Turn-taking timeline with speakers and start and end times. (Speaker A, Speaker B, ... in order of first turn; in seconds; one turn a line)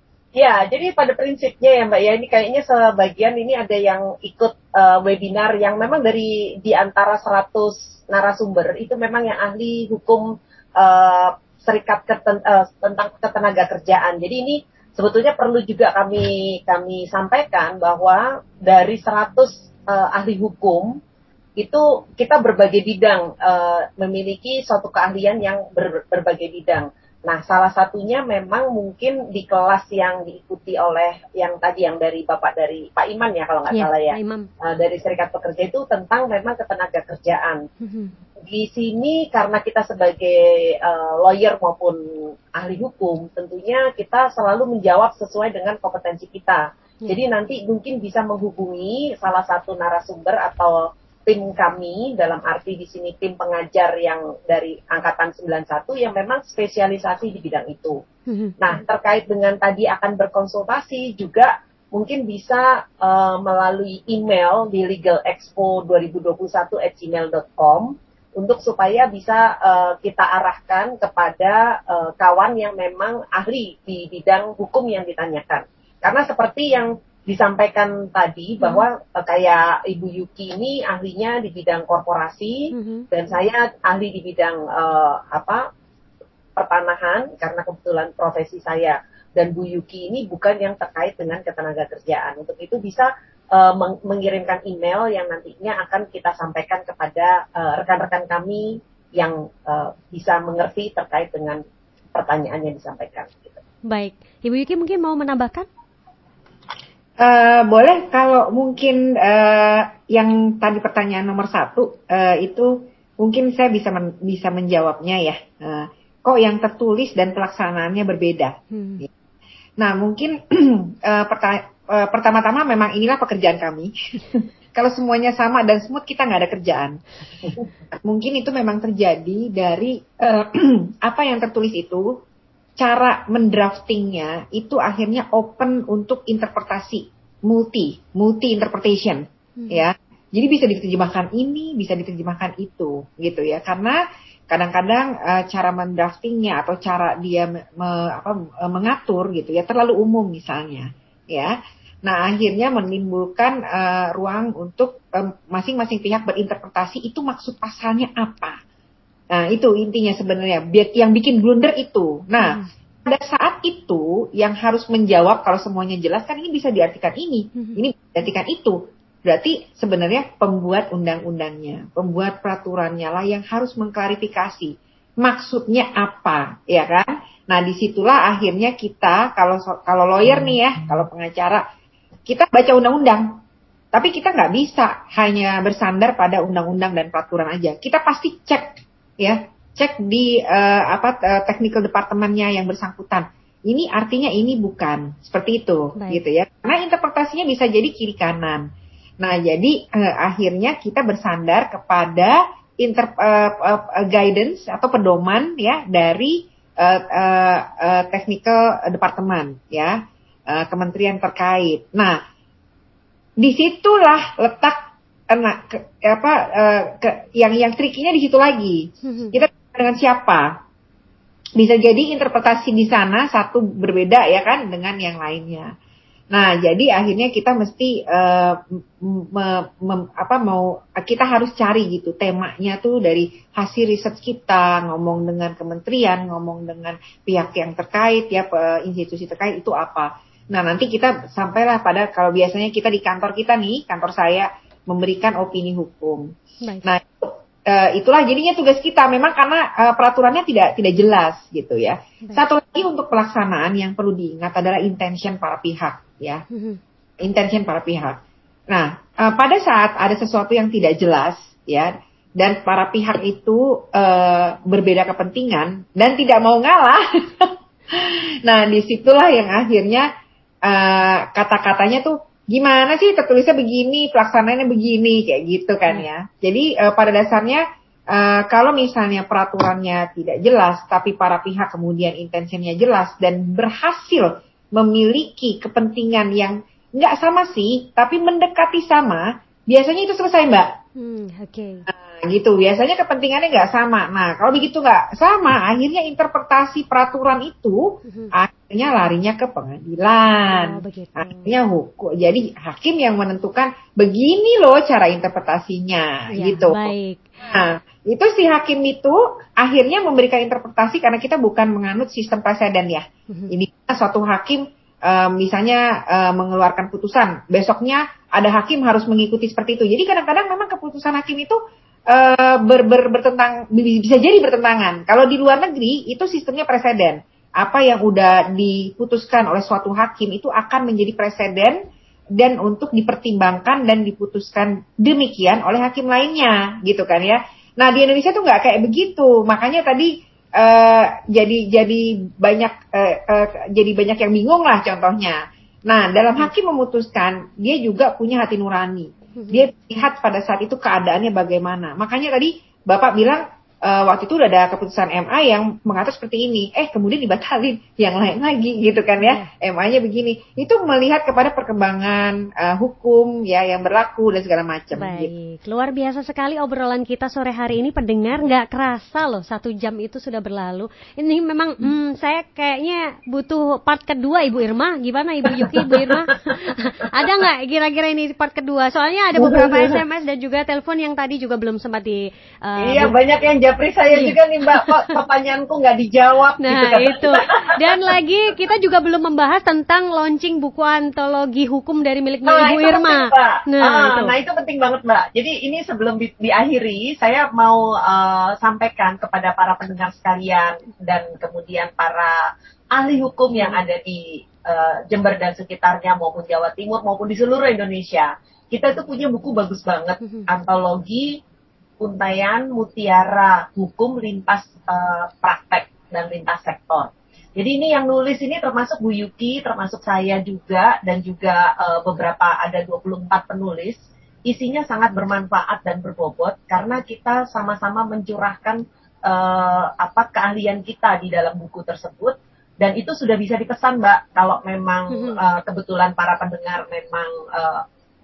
Speaker A: 0.3-21.0
Speaker A: 21.6-37.6
Speaker B: 33.7-34.5
Speaker B: 37.8-38.1
Speaker A: 38.5-42.0
Speaker A: 42.5-58.0
Speaker B: 58.3-58.6
Speaker A: 58.6-85.6
Speaker B: 82.7-83.1
Speaker A: 86.6-101.6
Speaker A: 102.1-103.6
Speaker B: 103.9-105.7
Speaker C: 107.2-119.1
Speaker B: 118.7-119.0
Speaker C: 119.8-127.0
Speaker C: 127.9-132.2
Speaker C: 132.8-158.6
Speaker B: 139.6-139.9
Speaker C: 159.3-181.7
Speaker B: 162.4-162.7
Speaker B: 167.6-167.8
Speaker C: 182.3-183.4
Speaker C: 183.9-212.2
Speaker B: 196.0-196.2
Speaker C: 213.4-220.6
Speaker B: 219.0-219.3
Speaker C: 221.6-225.7
Speaker C: 226.3-256.4
Speaker B: 246.6-246.9
Speaker B: 256.5-256.8
Speaker C: 257.2-270.1
Speaker C: 270.6-290.8
Speaker B: 291.0-291.9
Speaker C: 291.9-306.9
Speaker B: 298.1-298.3
Speaker B: 300.5-301.5
Speaker B: 306.3-307.2
Speaker C: 307.4-331.8
Speaker C: 332.4-365.3
Speaker B: 349.4-349.7
Speaker B: 359.2-359.5
Speaker B: 364.9-383.1
Speaker A: 375.6-376.1
Speaker A: 379.4-380.0
Speaker A: 382.8-387.9
Speaker B: 384.1-385.0
Speaker B: 386.6-394.3
Speaker A: 392.4-402.4
Speaker A: 402.9-411.3
Speaker B: 410.2-410.5
Speaker A: 412.0-437.8
Speaker B: 435.1-435.4